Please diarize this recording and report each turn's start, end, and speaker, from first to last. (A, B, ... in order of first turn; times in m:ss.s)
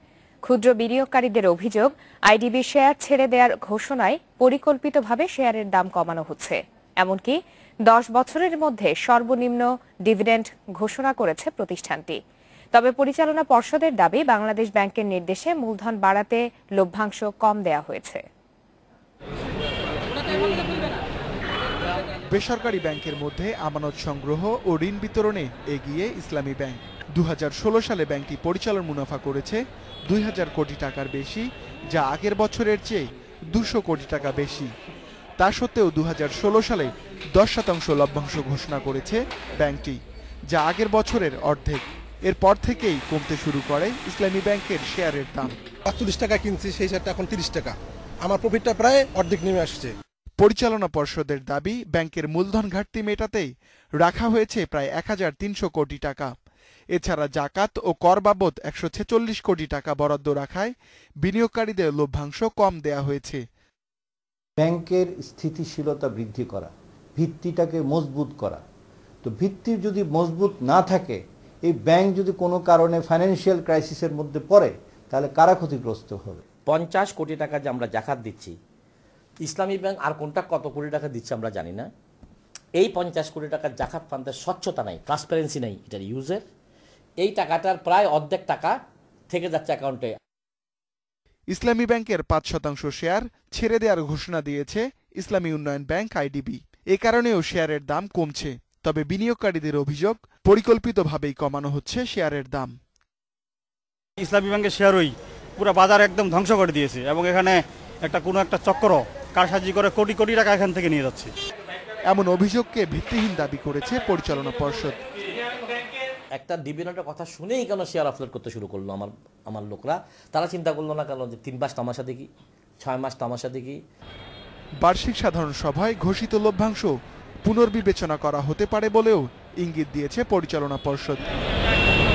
0:00.5-0:12.2 A
0:12.7-0:18.2 A
0:22.3-0:34.7 B
0:35.4-0:40.0 B
0:40.5-0:45.6 B
0:45.9-0:50.0 C
0:50.4-0:56.3 B
0:56.9-1:00.7 B
1:01.2-1:03.4 B
1:04.6-1:08.6 D
1:09.2-1:16.4 D
1:16.7-1:18.5 E
1:19.4-1:21.9 E
1:22.8-1:26.4 E
1:27.2-1:28.8 E
1:29.3-1:30.1 E
1:31.5-1:42.7 B
1:44.2-1:51.3 F
1:52.1-1:55.0 B
1:56.3-2:02.3 E
2:02.8-2:03.8 E
2:04.8-2:06.9 B
2:07.5-2:11.2 B